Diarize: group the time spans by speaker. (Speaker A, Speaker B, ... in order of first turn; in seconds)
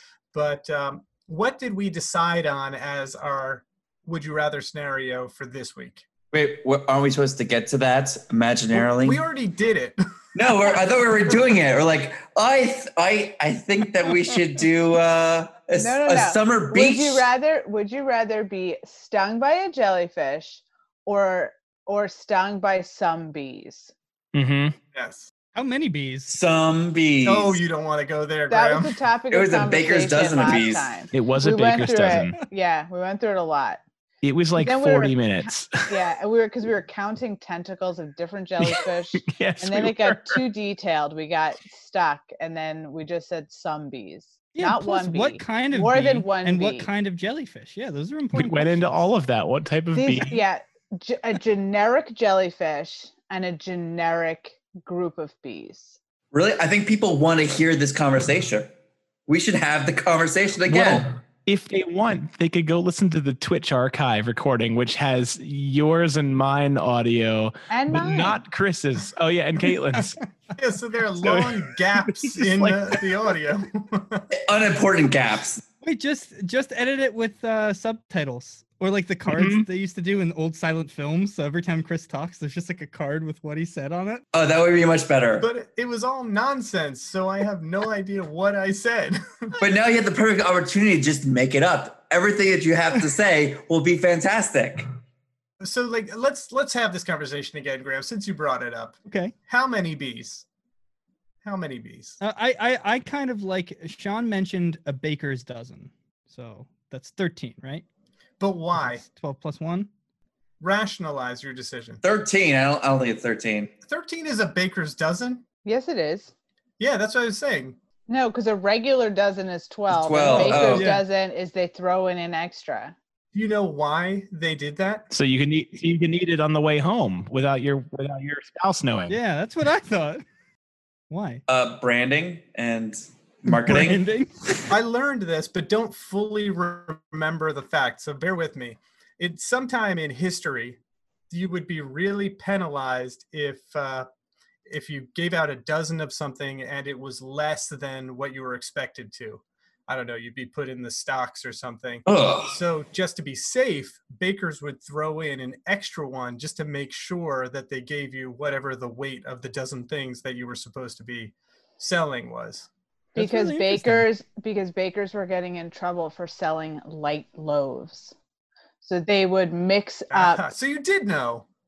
Speaker A: 0.3-6.0, 8.7-10.7, 24.9-25.3, 27.2-29.0, 70.6-74.3, 85.4-89.6, 95.6-100.5, 101.4-102.2, 108.4-109.0, 110.6-112.0, 113.9-115.5, 116.8-117.8, 120.4-121.0, 123.3-125.1, 134.7-140.8, 141.3-144.1, 144.7-162.7, 170.1-171.5
Speaker B: 6.3-9.2, 10.3-17.3, 26.3-27.6, 29.3-31.0, 56.3-58.7, 59.3-61.1, 74.5-75.6, 84.3-85.5, 89.6-94.9, 112.0-113.7, 119.9-120.9, 131.5-134.0, 152.1-152.6
Speaker C: 15.7-23.9, 28.5-33.8, 34.6-46.9, 49.9-56.0, 67.7-68.4, 115.6-116.3, 118.1-123.0, 163.2-168.1, 168.8-170.5
Speaker D: 24.3-24.8, 31.1-32.4, 34.2-36.1, 38.6-40.4, 48.3-50.4, 60.7-70.2, 71.2-73.0, 79.3-79.7, 125.1-129.2
Speaker E: 25.6-26.4, 44.5-49.0, 75.8-84.2, 99.1-99.3, 102.2-107.8, 108.8-109.9, 129.1-130.2, 131.1-131.4, 133.6-134.7, 163.2-164.1